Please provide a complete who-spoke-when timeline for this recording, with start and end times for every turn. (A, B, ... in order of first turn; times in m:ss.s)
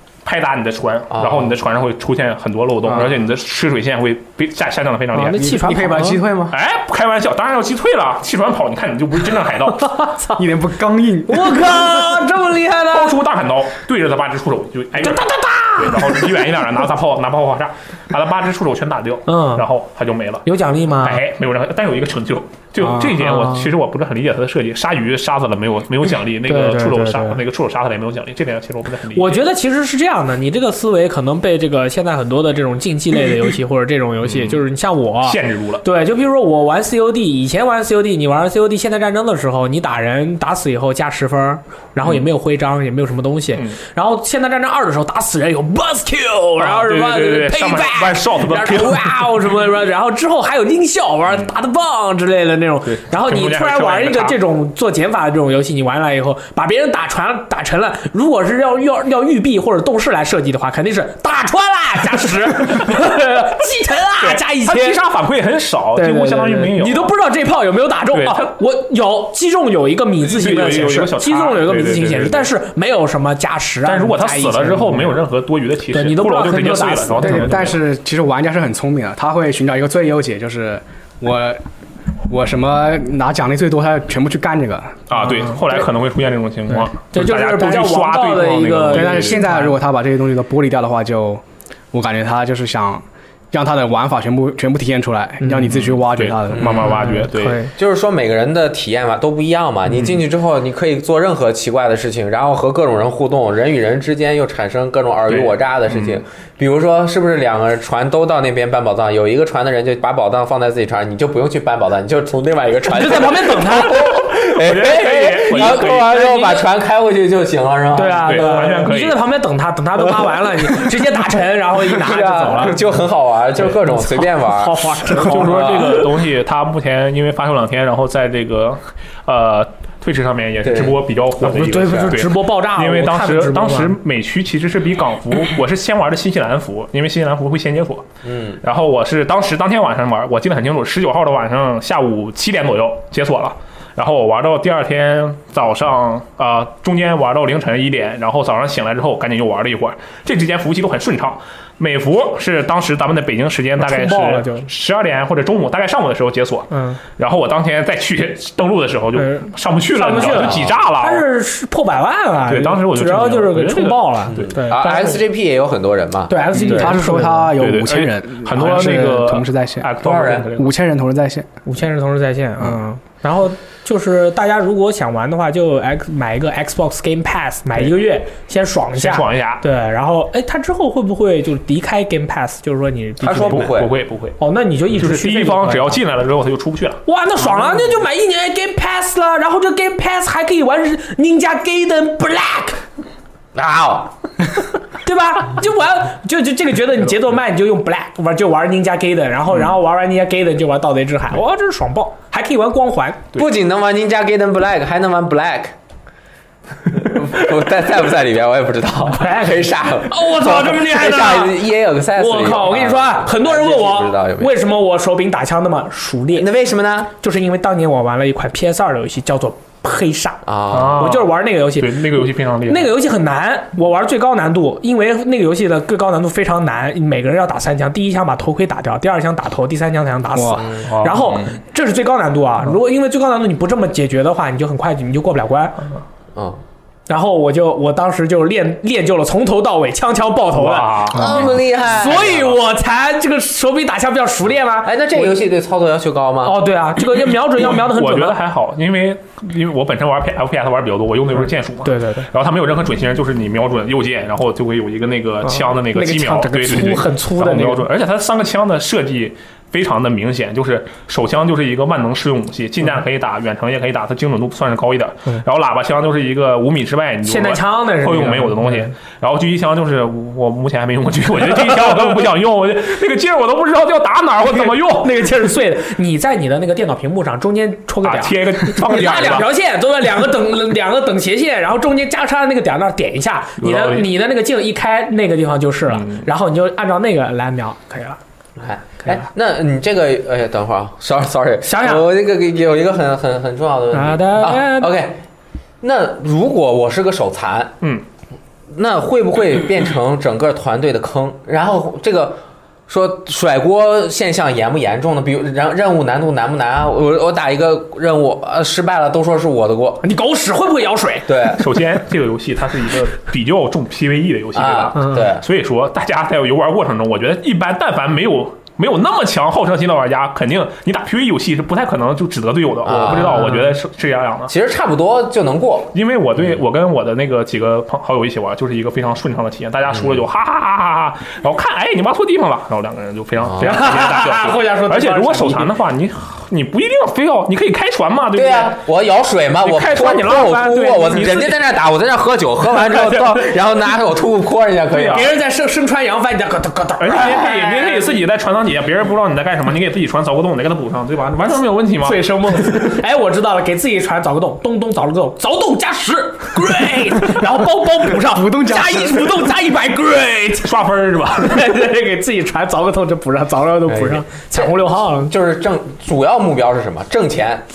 0:00.2-0:05.5 A
0:01.1-0:01.6 B
0:02.9-0:03.2 B
0:05.1-0:06.3 C
0:05.3-0:06.6 D
0:06.5-0:09.9 A
0:09.7-0:10.4 C
0:10.4-0:11.8 D
0:11.3-0:13.2 C
0:12.9-0:20.4 A
0:15.0-0:16.5 C
0:19.3-0:19.7 C
0:20.4-0:21.2 C
0:21.0-0:29.4 A
0:23.1-0:23.7 C
0:26.4-0:27.4 C
0:29.1-1:05.0 C
0:34.2-0:34.6 A
0:35.2-0:35.8 A
0:46.6-0:49.2 A
0:52.9-0:54.4 A
1:04.2-1:07.1 A
1:06.0-1:15.2 C
1:08.1-1:08.5 A
1:10.2-1:12.5 A
1:13.8-1:17.8 A
1:15.9-1:17.6 C
1:17.2-1:21.6 D
1:22.3-1:25.2 D
1:25.1-1:29.4 A
1:26.7-1:29.7 C
1:28.9-1:37.0 D
1:35.7-1:37.6 A
1:36.5-1:37.2 B
1:36.9-1:37.7 C
1:37.7-1:58.9 B
1:45.3-1:46.2 A
1:52.9-1:54.1 C
1:53.9-1:56.1 A
1:55.5-1:56.6 C
1:57.9-2:02.8 C
1:58.2-1:59.2 A
2:01.8-2:06.0 B
2:03.8-2:06.0 C
2:05.2-2:18.1 A
2:10.6-2:11.0 B
2:11.4-2:14.0 C
2:18.2-2:18.6 B
2:18.6-2:41.2 A
2:33.8-2:34.7 C
2:36.7-2:37.0 C
2:39.2-2:44.9 C
2:40.2-2:40.8 B
2:42.5-2:45.2 A
2:44.3-2:47.0 B
2:46.3-2:47.6 C
2:46.5-2:50.0 D
2:47.6-2:50.7 A
2:50.0-2:50.5 B
2:50.5-2:51.5 D
2:51.6-3:03.7 C
2:58.9-2:59.6 A
3:03.2-3:03.9 B
3:03.4-3:04.4 A
3:04.4-3:06.0 C
3:04.9-3:07.0 A
3:07.1-3:12.8 C
3:13.6-3:14.1 B
3:15.0-3:23.3 C
3:23.3-3:25.8 B
3:26.9-3:34.5 B
3:29.0-3:36.5 C
3:36.4-3:37.1 B
3:37.2-3:55.9 C
3:40.5-3:41.1 B
3:40.7-3:42.9 A
3:50.3-3:50.6 D
3:50.6-3:51.4 B
3:50.8-3:51.4 A
3:56.4-3:56.6 B
3:57.1-4:05.4 C
4:00.5-4:01.6 A
4:01.1-4:02.4 B
4:02.1-4:02.4 A
4:04.8-4:06.6 B
4:06.4-4:08.4 C
4:07.6-4:35.2 A
4:11.8-4:12.3 C
4:15.5-4:17.9 C
4:27.2-4:28.9 C
4:34.4-4:48.2 C
4:38.0-4:39.5 A
4:43.6-4:44.1 A
4:45.9-4:46.2 A
4:48.6-4:55.2 B
4:51.6-4:52.1 C
4:53.9-4:55.0 C
4:55.8-4:57.8 B
4:58.7-5:10.0 B
5:10.0-5:11.6 C
5:11.3-5:11.6 B
5:11.6-5:24.5 A
5:14.5-5:15.4 B
5:15.0-5:15.3 C
5:22.8-5:23.6 B
5:23.1-5:23.7 C
5:24.5-5:26.6 B
5:25.9-5:38.8 A
5:29.9-5:30.2 B
5:33.4-5:33.8 B
5:33.6-5:35.7 C
5:38.4-5:45.3 B
5:39.6-5:41.6 A
5:44.9-5:45.3 A
5:45.0-5:47.6 C
5:47.0-5:52.9 A
5:47.2-5:48.1 B
5:52.0-6:05.3 C
5:58.1-5:59.5 D
6:00.6-6:01.6 A
6:03.9-6:07.6 B